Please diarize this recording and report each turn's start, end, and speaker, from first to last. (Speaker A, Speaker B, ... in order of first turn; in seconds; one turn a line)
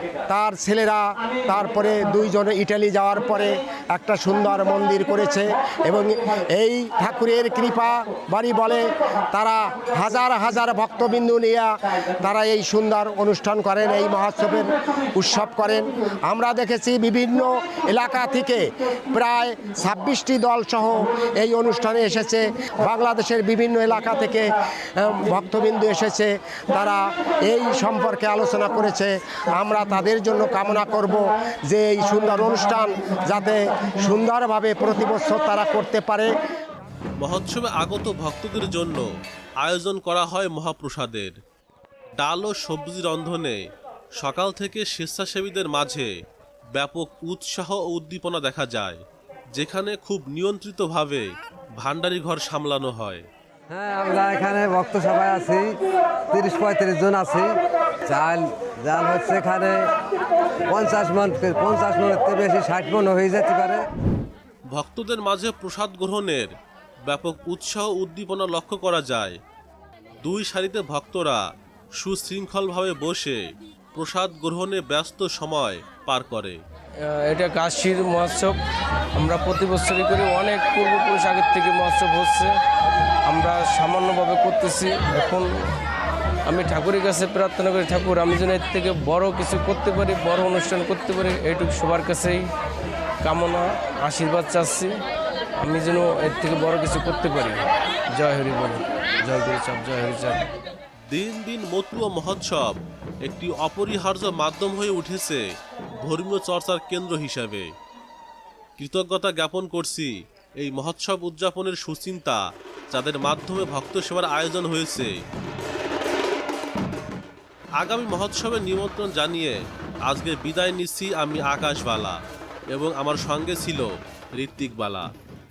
Speaker A: 0.3-36.4
Speaker B: 37.2-39.1
Speaker B: 39.6-41.4
Speaker B: 42.2-46.2
Speaker B: 46.7-53.3
Speaker C: 53.7-60.0
Speaker C: 60.6-63.9
Speaker B: 64.7-69.4
Speaker B: 70.2-76.6
Speaker D: 77.0-78.6
Speaker D: 79.2-82.6
Speaker D: 83.3-85.7
Speaker D: 86.5-92.5
Speaker D: 93.2-95.0
Speaker D: 95.6-100.5
Speaker B: 101.1-105.5
Speaker B: 106.0-107.7
Speaker B: 108.8-115.2
Speaker B: 117.8-125.1